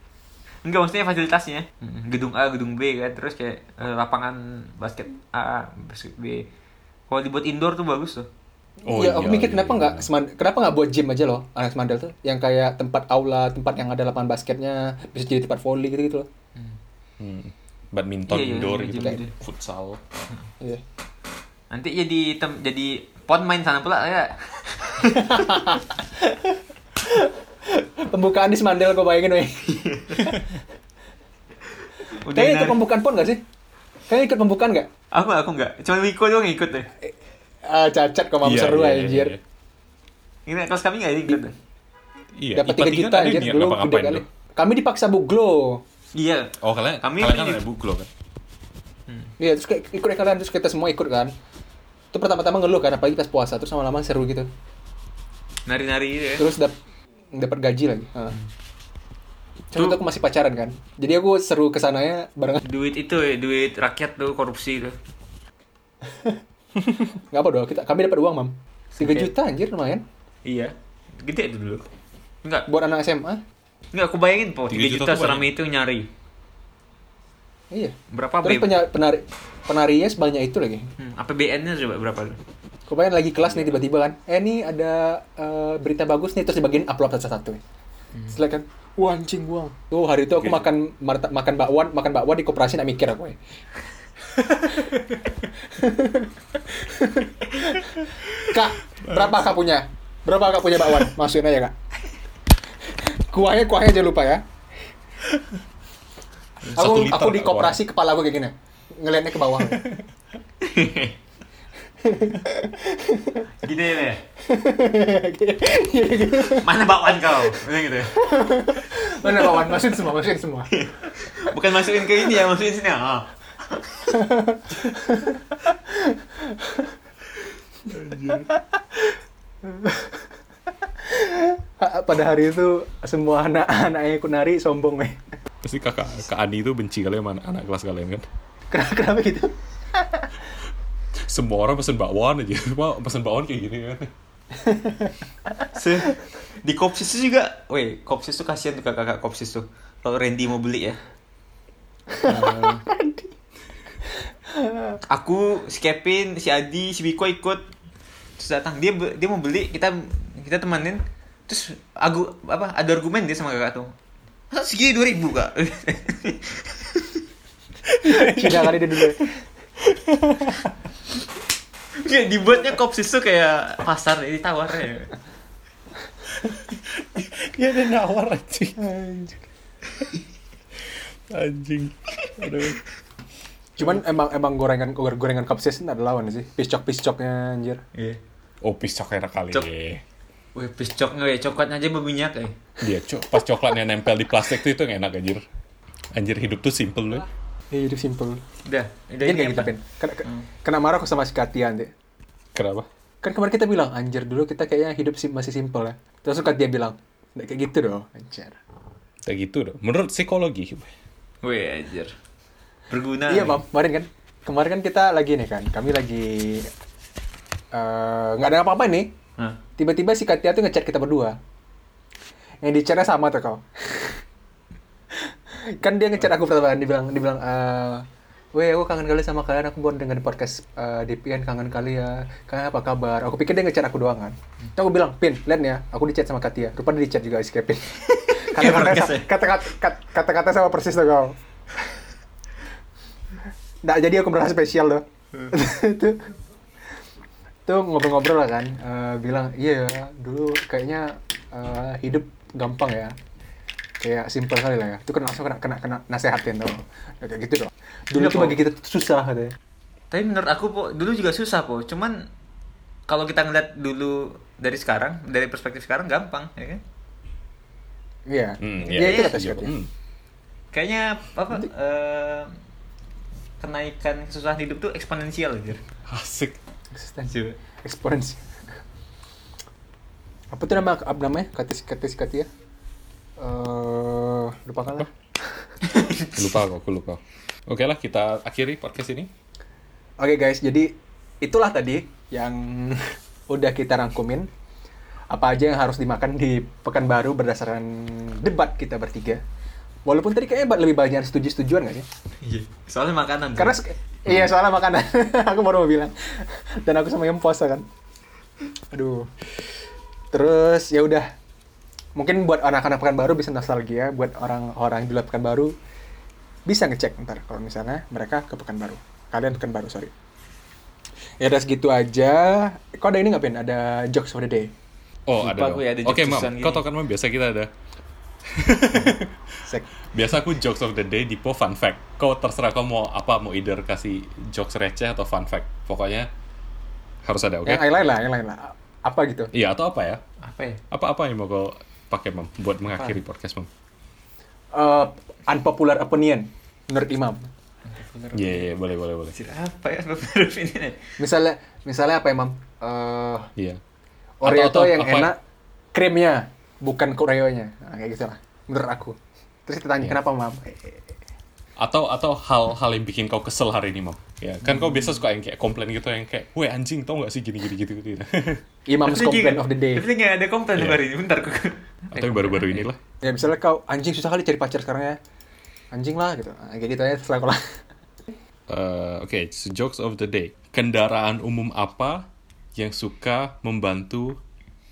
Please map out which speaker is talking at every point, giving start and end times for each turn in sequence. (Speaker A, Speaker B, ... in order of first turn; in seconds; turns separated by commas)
Speaker A: 0.6-6.5, Speaker A: 7.1-8.3, Speaker B: 8.8-10.1, Speaker C: 8.9-16.3, Speaker B: 17.2-20.0, Speaker A: 18.3-19.4, Speaker A: 21.7-25.5, Speaker C: 25.1-30.4, Speaker A: 29.9-30.3, Speaker A: 32.0-32.8, Speaker C: 32.3-33.4, Speaker C: 34.1-34.9, Speaker A: 35.1-36.9, Speaker C: 37.6-39.3, Speaker B: 38.4-39.4, Speaker A: 40.5-41.5, Speaker B: 42.4-44.2, Speaker C: 42.5-45.8, Speaker A: 46.1-47.6, Speaker B: 46.6-48.1, Speaker C: 49.4-51.3, Speaker C: 52.1-54.5, Speaker A: 55.7-56.5, Speaker C: 56.4-56.7, Speaker C: 57.3-58.4, Speaker C: 59.7-62.6, Speaker A: 62.6-65.0, Speaker C: 66.0-70.0, Speaker A: 68.9-69.3, Speaker A: 70.4-71.9, Speaker C: 72.7-73.4, Speaker A: 73.9-76.1, Speaker B: 74.7-75.5, Speaker C: 77.7-80.9, Speaker A: 78.1-78.7, Speaker A: 81.0-82.4, Speaker C: 82.9-87.6, Speaker C: 88.3-93.4, Speaker C: 94.3-101.7, Speaker B: 99.0-99.3, Speaker C: 102.9-104.4, Speaker B: 106.7-107.8, Speaker C: 106.7-109.9, Speaker A: 110.6-111.2, Speaker C: 112.0-113.5, Speaker A: 113.6-114.2, Speaker C: 114.4-116.8, Speaker A: 116.4-118.3, Speaker C: 118.1-120.7, Speaker A: 120.7-124.3, Speaker C: 124.1-126.9, Speaker B: 127.9-128.5, Speaker C: 128.3-130.3, Speaker C: 130.8-135.2, Speaker B: 135.6-138.3, Speaker C: 138.7-140.3, Speaker B: 141.2-144.1, Speaker C: 144.6-145.1, Speaker A: 145.7-151.0, Speaker C: 152.1-153.3, Speaker A: 152.2-152.8, Speaker C: 154.5-155.0, Speaker A: 155.0-157.6, Speaker A: 158.4-163.9, Speaker A: 164.5-167.2, Speaker C: 168.0-169.3, Speaker B: 168.1-168.7, Speaker A: 171.9-175.1, Speaker B: 176.4-178.8, Speaker C: 178.8-179.4, Speaker B: 181.3-182.8, Speaker C: 183.8-187.8, Speaker A: 187.9-188.2, Speaker B: 188.6-190.0, Speaker A: 190.5-192.6, Speaker B: 192.8-195.4, Speaker B: 196.1-197.2, Speaker C: 197.7-198.4, Speaker A: 198.7-199.7, Speaker C: 199.2-201.9, Speaker B: 202.5-202.9, Speaker C: 203.2-208.6, Speaker B: 209.2-210.9, Speaker A: 211.4-212.1, Speaker A: 212.9-213.6, Speaker C: 213.3-216.7, Speaker C: 217.7-219.1, Speaker C: 219.8-221.4, Speaker C: 222.6-224.2, Speaker C: 225.1-241.4, Speaker A: 238.0-239.3, Speaker C: 243.8-246.3, Speaker C: 247.7-253.2, Speaker C: 254.0-259.5, Speaker A: 258.1-258.6, Speaker A: 260.1-262.3, Speaker A: 263.1-266.8, Speaker C: 268.2-269.7, Speaker B: 268.6-269.9, Speaker A: 268.9-269.3, Speaker A: 270.7-272.5, Speaker A: 273.6-275.8, Speaker B: 276.1-276.6, Speaker C: 276.9-278.4, Speaker A: 277.3-277.6, Speaker C: 280.5-282.5, Speaker C: 283.4-285.1, Speaker A: 285.8-286.4, Speaker B: 286.2-289.3, Speaker C: 290.2-294.5, Speaker C: 295.3-299.4, Speaker C: 300.0-302.1, Speaker A: 302.4-303.8, Speaker C: 303.6-307.9, Speaker C: 308.9-309.3, Speaker C: 310.3-311.3, Speaker C: 312.1-315.8, Speaker C: 316.6-320.1, Speaker C: 321.4-324.7, Speaker B: 325.3-327.7, Speaker A: 325.4-326.8, Speaker B: 328.5-336.3, Speaker B: 337.2-337.9, Speaker C: 337.6-339.5, Speaker B: 339.5-340.2, Speaker A: 340.4-340.8, Speaker B: 340.9-343.7, Speaker C: 344.7-347.5, Speaker A: 347.9-348.7, Speaker B: 348.3-349.3, Speaker A: 349.3-351.1, Speaker C: 351.2-353.5, Speaker C: 354.4-355.4, Speaker B: 354.4-355.3, Speaker C: 355.9-361.1, Speaker B: 361.8-368.6, Speaker C: 368.9-370.1, Speaker A: 369.0-372.9, Speaker B: 370.8-371.0, Speaker B: 372.1-373.0, Speaker C: 373.2-375.2, Speaker C: 375.9-377.6, Speaker B: 378.7-384.4